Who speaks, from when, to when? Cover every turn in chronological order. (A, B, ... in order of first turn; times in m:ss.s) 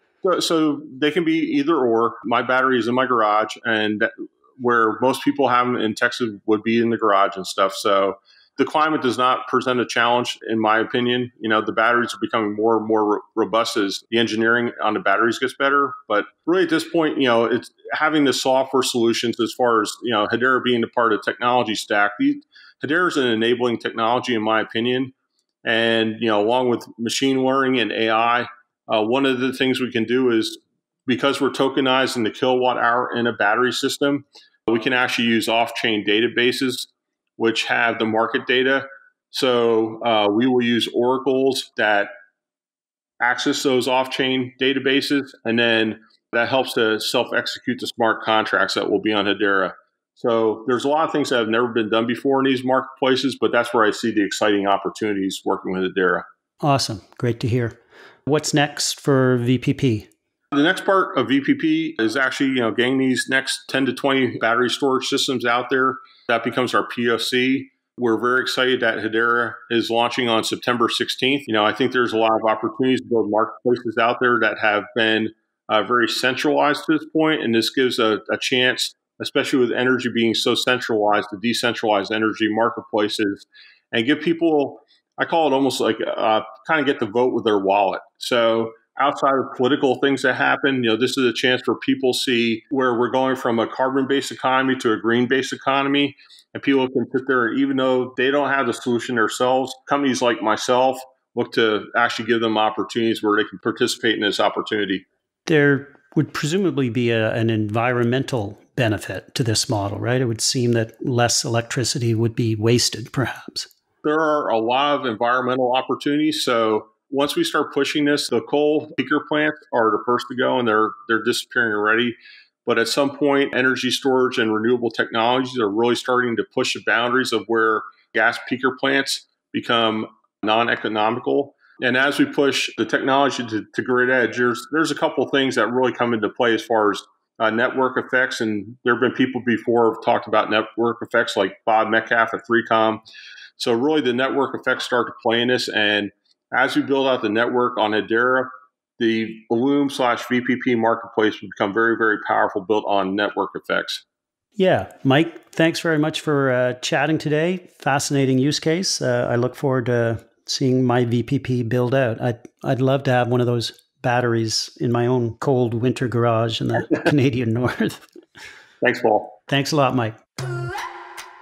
0:00.2-0:25.1 A
0:25.6-0:42.1 A
0:43.2-0:56.2 A
0:56.6-1:00.1 B
1:00.5-1:45.0 A
1:45.4-1:53.7 B
1:54.0-2:23.0 A
2:23.6-2:34.0 A
2:34.6-2:48.0 B
2:48.8-2:49.4 A
2:49.5-2:50.2 B